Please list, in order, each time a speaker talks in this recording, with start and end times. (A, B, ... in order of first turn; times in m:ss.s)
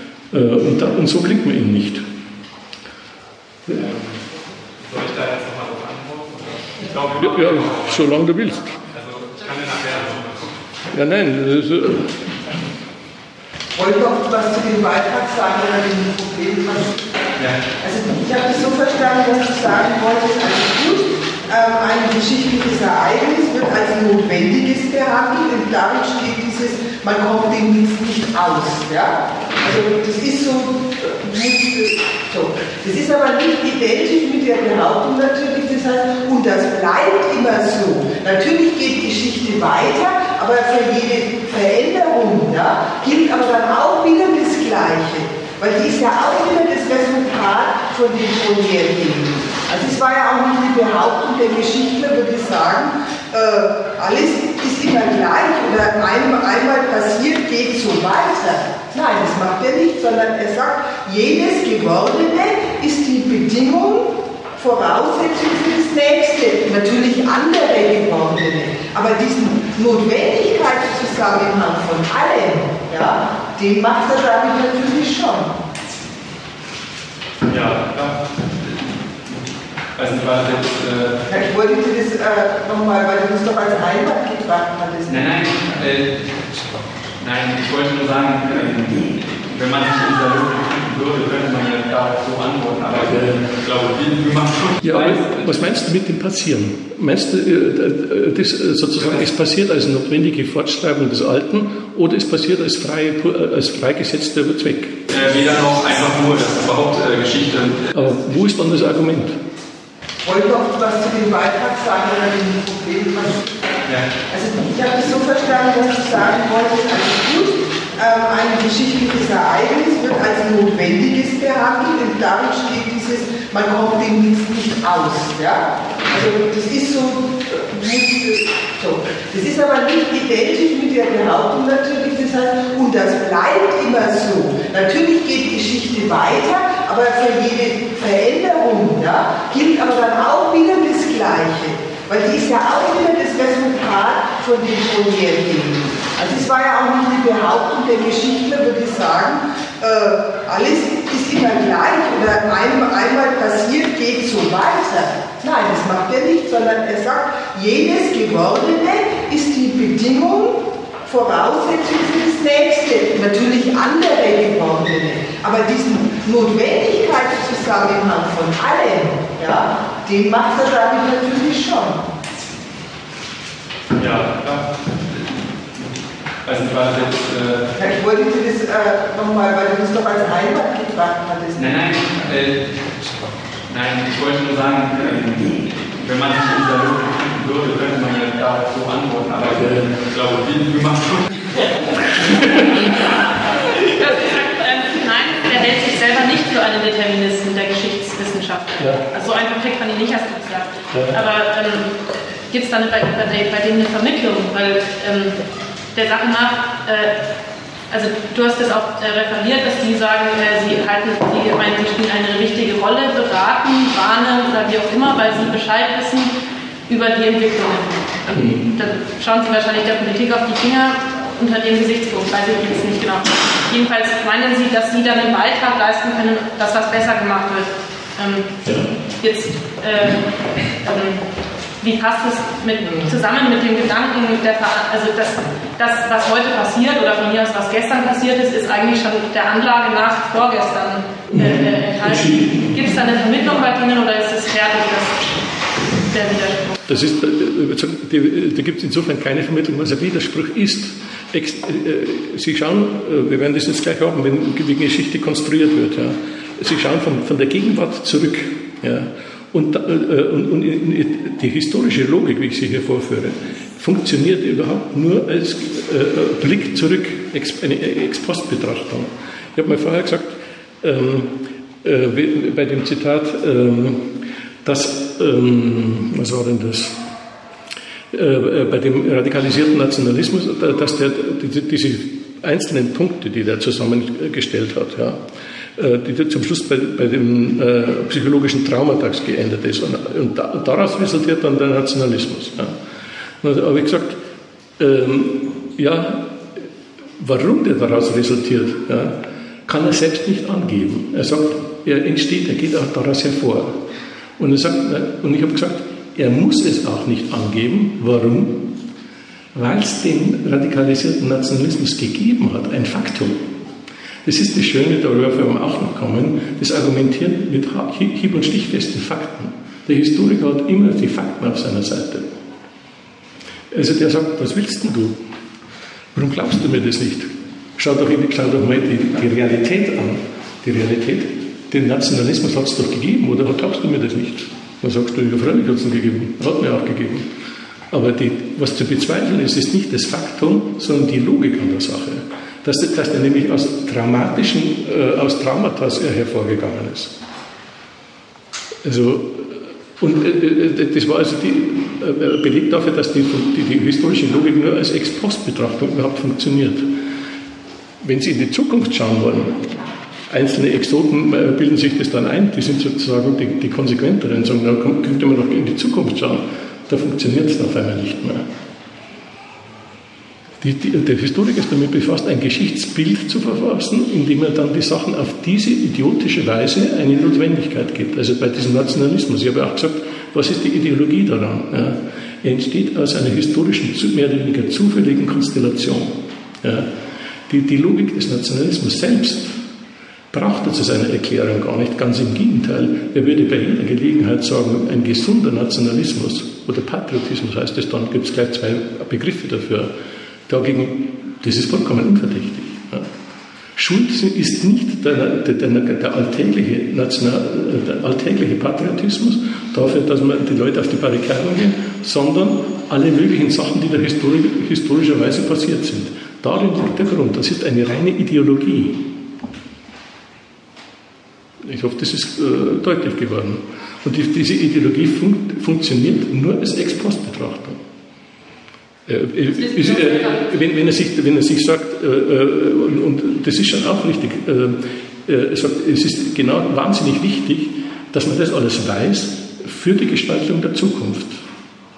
0:00.3-0:02.0 A
0:03.7-0:04.1 B
0:04.8-0:08.1 B
0:07.2-0:08.8 A
0:08.9-0:10.6 B
0:10.9-0:12.3 A
0:13.8-0:17.0 C
0:17.4-0:17.6 B
0:17.8-1:15.6 C
1:17.4-1:18.2 B
1:20.0-1:21.2 B
1:21.3-1:25.4 C
1:25.1-1:26.4 B
1:27.2-1:35.6 B
1:33.1-1:33.5 A
1:34.8-1:45.0 A
1:45.1-1:47.9 B
1:47.9-1:49.4 A
1:50.2-1:53.5 C
1:54.3-2:52.1 C
2:54.0-2:54.7 B
2:56.4-2:57.7 B
2:57.8-3:01.8 C
3:01.6-3:02.7 B
3:03.7-3:13.0 B
3:09.6-3:10.0 A
3:13.8-3:21.9 D
3:18.8-3:19.0 A
3:20.9-3:21.2 A
3:22.5-3:25.4 D
3:25.9-3:27.2 D
3:27.9-3:36.3 D
3:36.9-3:48.5 D
3:38.3-3:38.7 A
3:48.6-3:48.9 A
3:49.2-3:51.2 D
3:51.8-4:05.3 D
4:01.3-4:02.9 A
4:05.9-4:06.8 D
4:06.9-4:37.0 A
4:38.1-4:45.2 A
4:45.8-4:52.8 A
4:53.4-4:54.2 A
4:54.8-4:56.7 A
4:57.2-5:03.8 A
5:04.4-5:08.8 A
5:09.6-5:13.5 A
5:14.2-5:22.3 A
5:23.7-5:25.2 A
5:26.2-5:37.3 A
5:37.9-5:47.1 A
5:48.8-5:57.0 A
5:58.0-5:59.7 A
6:00.3-6:08.4 A
6:10.6-6:26.9 A
6:27.5-6:29.6 A
6:30.3-6:39.9 A
6:40.5-6:43.1 A
6:43.8-6:59.2 A
7:01.6-7:07.8 A
7:09.1-7:21.4 A
7:09.6-7:10.4 D